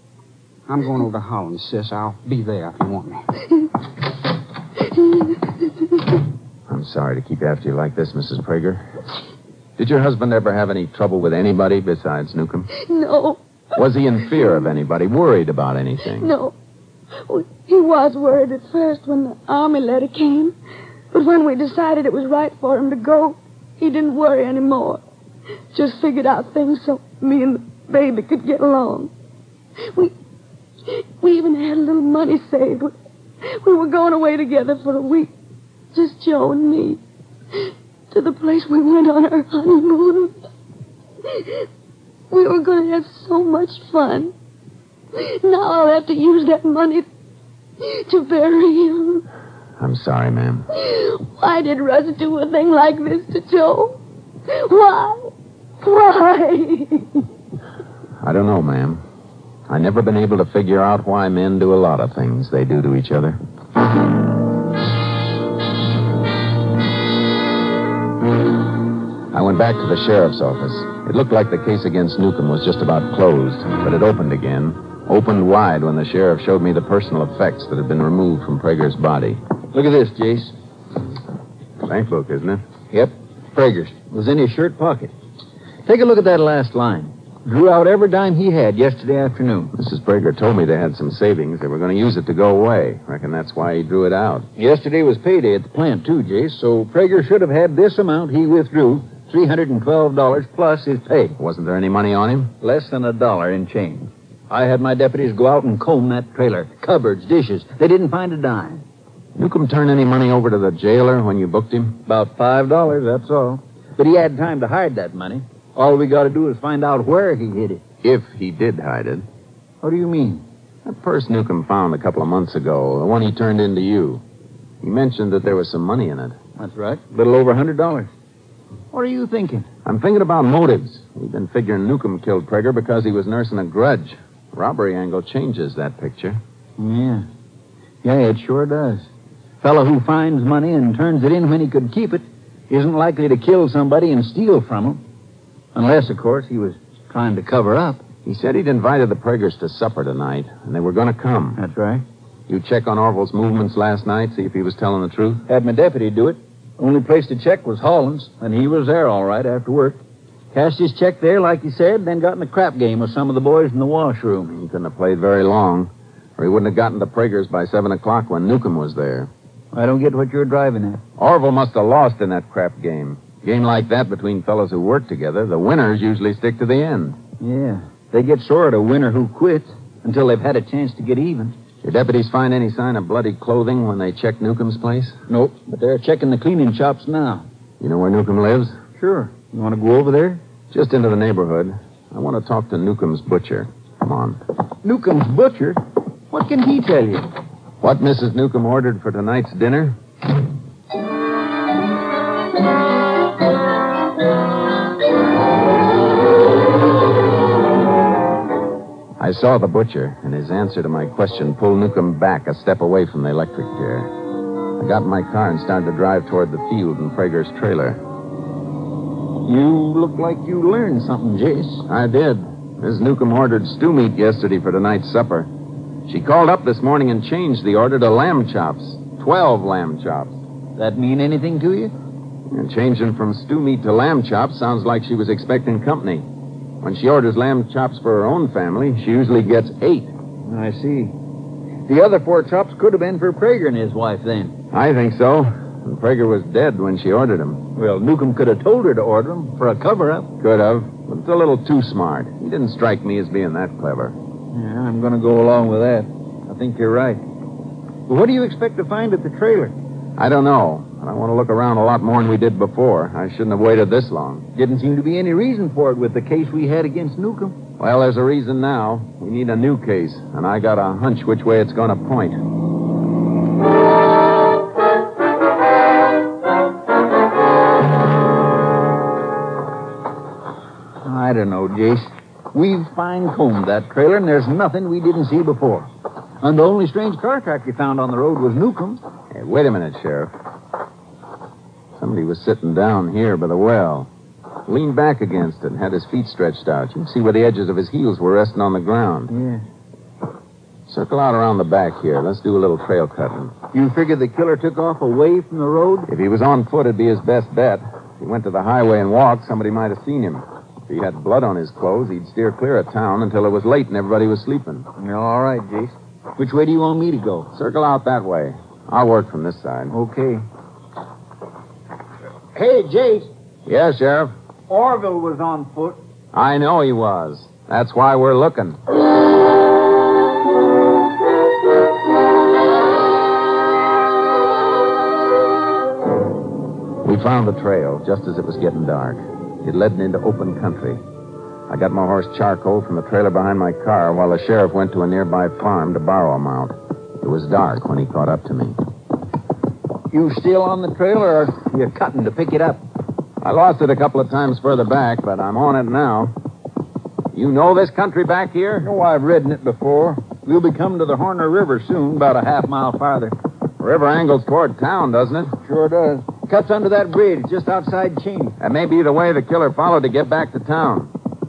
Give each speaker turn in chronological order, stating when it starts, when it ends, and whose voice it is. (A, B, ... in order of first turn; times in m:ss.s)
0:00.7-0:03.2 A
0:06.7-0:08.9 B
0:09.8-0:12.7 B
0:12.7-0:13.4 C
0:13.8-0:16.3 B
0:16.1-0:16.5 C
0:17.3-0:20.5 C
0:21.1-0:25.0 C
0:25.7-0:29.1 C
0:30.9-0:32.9 C
0:33.4-0:35.3 C
0:35.9-0:37.0 C
0:37.5-0:40.4 C
0:41.3-0:41.7 C
0:42.3-0:44.3 C
0:45.2-0:47.1 C
0:47.8-0:49.2 C
0:49.8-0:50.7 B
0:50.8-0:54.0 C
0:54.5-0:57.2 C
0:58.2-0:59.0 B
0:59.7-1:03.4 B
1:09.3-1:19.4 B
1:19.7-1:20.5 D
1:21.8-1:22.6 B
1:22.9-1:25.1 D
1:25.9-1:29.7 D
1:29.7-1:34.5 B
1:34.6-1:41.4 D
1:41.4-1:42.5 B
1:42.6-1:48.8 D
1:49.4-1:52.0 B
1:52.0-1:57.8 D
1:58.0-1:59.3 B
1:59.8-2:00.4 D
2:00.8-2:04.2 B
2:04.8-2:06.4 B
2:06.6-2:08.1 D
2:08.9-2:09.7 D
2:09.8-2:16.4 B
2:16.8-2:17.3 D
2:18.0-2:19.1 D
2:19.6-2:25.0 D
2:25.7-2:28.0 D
2:28.2-2:31.6 B
2:31.6-2:32.0 D
2:32.5-2:35.4 B
2:35.5-2:40.0 D
2:40.5-2:44.5 D
2:44.5-2:49.3 B
2:49.7-2:51.0 D
2:51.2-2:57.2 B
2:57.4-3:01.6 D
3:01.8-3:05.2 B
3:05.3-3:07.5 D
3:07.8-3:08.8 B
3:09.0-3:10.4 D
3:10.7-3:14.4 B
3:14.8-3:17.3 D
3:17.8-3:20.0 B
3:29.2-3:34.1 B
3:34.8-3:38.0 B
3:39.4-3:41.8 D
3:41.9-3:45.5 B
3:46.1-3:50.4 B
3:50.8-3:51.9 D
3:52.5-3:56.2 B
3:56.8-4:00.1 B
4:00.5-4:01.2 D
4:01.9-4:04.6 D
4:04.7-4:07.7 B
4:07.8-4:10.3 D
4:10.4-4:14.2 B
4:14.5-4:17.2 D
4:18.1-4:19.8 D
4:20.2-4:24.5 B
4:24.5-4:27.6 D
4:27.8-4:32.4 B
4:41.0-4:45.9 D
4:46.4-4:49.0 D
4:49.3-4:50.3 B
4:52.0-4:54.1 B
4:54.7-4:59.3 B
4:59.3-4:59.6 D
5:00.9-5:03.5 B
5:03.7-5:06.1 D
5:06.1-5:14.9 B
5:15.0-5:17.5 D
5:17.5-5:20.0 B
5:19.9-5:20.4 D
5:22.6-5:23.3 D
5:23.7-5:24.3 B
5:24.7-5:26.0 D
5:26.3-5:28.8 B
5:37.0-5:41.0 B
5:41.7-5:48.8 B
5:50.1-5:52.8 D
5:53.4-5:56.3 B
5:57.3-5:58.9 B
5:58.8-6:03.4 D
6:03.8-6:05.6 B
6:05.6-6:08.6 D
6:08.6-6:11.1 B